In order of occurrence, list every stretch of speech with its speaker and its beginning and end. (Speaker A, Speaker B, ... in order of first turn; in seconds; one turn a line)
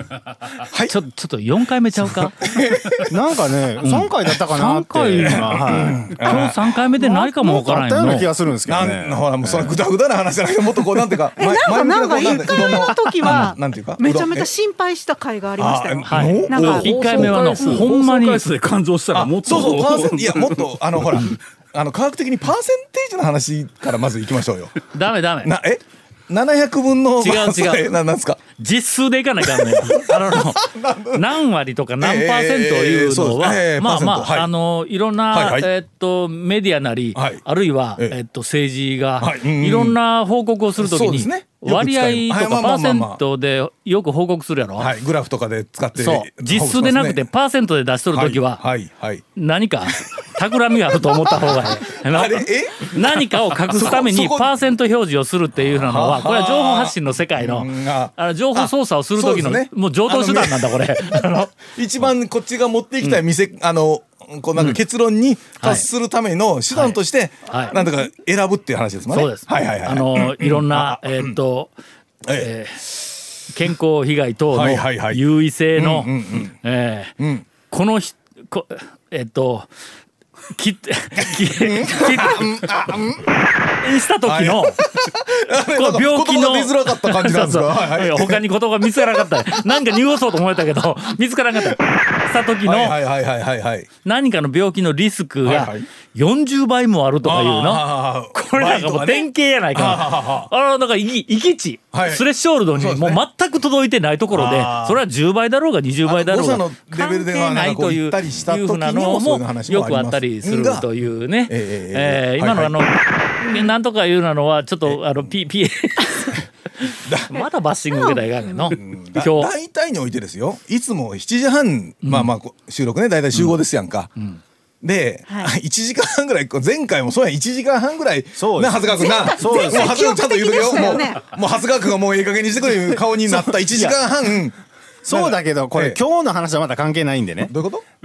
Speaker A: 0.6-0.9
Speaker B: 0.9-2.4
Speaker A: 2.3-3.1
Speaker C: 3.0-9.8
Speaker B: 3.8-8.3
Speaker A: 5.2-6.6
Speaker A: 8.7-14.5
Speaker D: 11.4-17.8
Speaker A: 15.6-17.1
Speaker B: 16.1-18.5
Speaker E: 16.5-20.7
Speaker A: 19.1-24.7
Speaker B: 24.9-25.5
Speaker A: 25.4-28.4
Speaker B: 27.2-27.9
Speaker B: 28.6-44.9
Speaker A: 29.4-31.3
Speaker A: 32.0-34.5
Speaker A: 35.3-35.7
Speaker A: 37.1-37.4
Speaker A: 39.2-40.0
Speaker A: 40.8-43.2
Speaker A: 44.8-47.3
Speaker B: 46.0-48.6
Speaker A: 48.1-49.2
Speaker B: 49.4-61.5
Speaker A: 49.9-54.5
Speaker A: 55.6-71.3
Speaker B: 65.6-65.9
Speaker B: 66.7-67.8
Speaker B: 69.1-71.7
Speaker A: 72.2-73.1
Speaker B: 72.3-72.9
Speaker B: 73.4-79.7
Speaker A: 74.5-75.2
Speaker A: 75.8-76.5
Speaker A: 77.2-77.5
Speaker B: 80.5-83.0
Speaker A: 81.3-83.4
Speaker B: 83.8-84.8
Speaker A: 84.2-90.0
Speaker B: 85.5-93.0
Speaker A: 92.6-93.9
Speaker B: 94.0-119.5
Speaker A: 95.4-95.9
Speaker A: 97.2-100.5
Speaker A: 101.9-103.2
Speaker A: 104.3-105.0
Speaker A: 106.0-110.9
Speaker A: 111.5-112.8
Speaker A: 114.8-115.2
Speaker A: 117.0-117.4
Speaker D: 117.9-118.8
Speaker A: 118.7-124.1
Speaker B: 122.0-122.3
Speaker A: 124.8-134.6
Speaker C: 128.4-130.0
Speaker D: 129.0-131.2
Speaker C: 133.2-134.0
Speaker C: 135.0-137.5
Speaker A: 135.1-136.0
Speaker A: 137.5-137.8